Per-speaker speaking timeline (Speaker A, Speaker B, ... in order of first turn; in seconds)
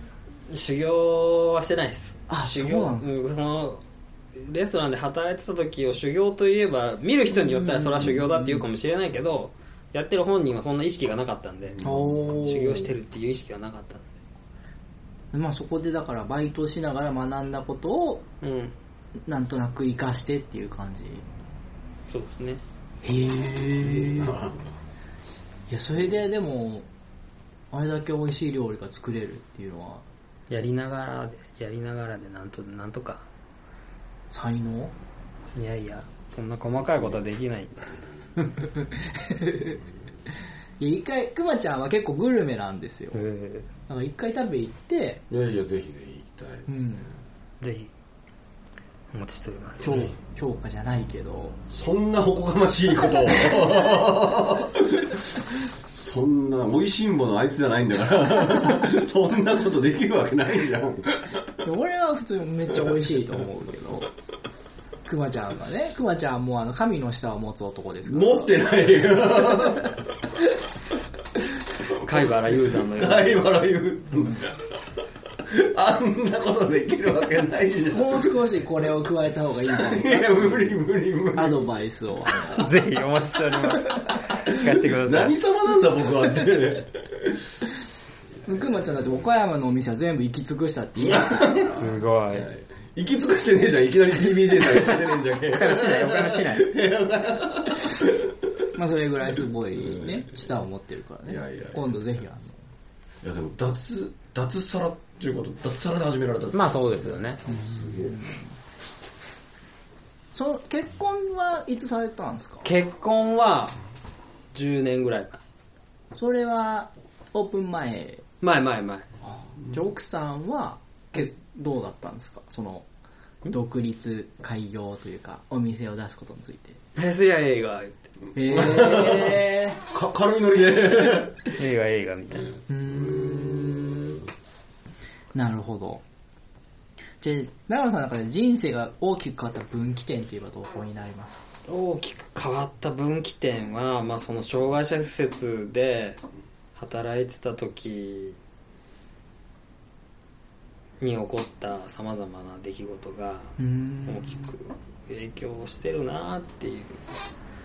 Speaker A: 0.5-3.8, 4.3-11.8, 12.3-14.1, 18.4-18.7, 22.1-22.6, 30.5-33.2, 35.5-37.9, 43.1-43.7, 47.6-47.9, 49.1-50.0, 71.9-73.4, 82.5-85.4, 91.7-92.5, 95.5-96.7, 106.5-107.4, 112.6-113.8, 114.5-115.4, 118.4-119.1, 126.9-128.0, 131.5-132.5, 141.7-146.2, 146.8-148.4, 151.0-157.1
Speaker B: 2.3-3.1, 7.3-8.6, 11.8-12.9, 15.3-18.2, 19.2-21.2, 23.0-24.4, 25.7-26.9, 27.7-30.0, 34.3-34.9, 38.5-39.8, 40.8-43.2, 43.9-45.2, 46.7-47.1, 49.8-51.6, 61.6-64.1, 65.0-68.7, 77.9-80.7, 81.3-82.7, 88.5-91.7, 98.7-102.6, 107.5-108.4, 110.3-112.6, 116.2-118.2, 119.5-122.8, 123.5-126.8, 128.3-129.8, 132.7-134.2, 135.3-136.0, 137.2-141.4, 153.6-154.5
Speaker C: 11.8-12.2, 23.7-24.8, 45.3-46.9, 51.7-61.4, 68.0-70.0, 72.0-74.8, 75.4-78.3, 79.7-81.7, 84.5-87.5, 91.0-98.3, 99.8-100.3, 101.3-101.9, 103.2-108.3, 128.4-131.4, 132.4-134.2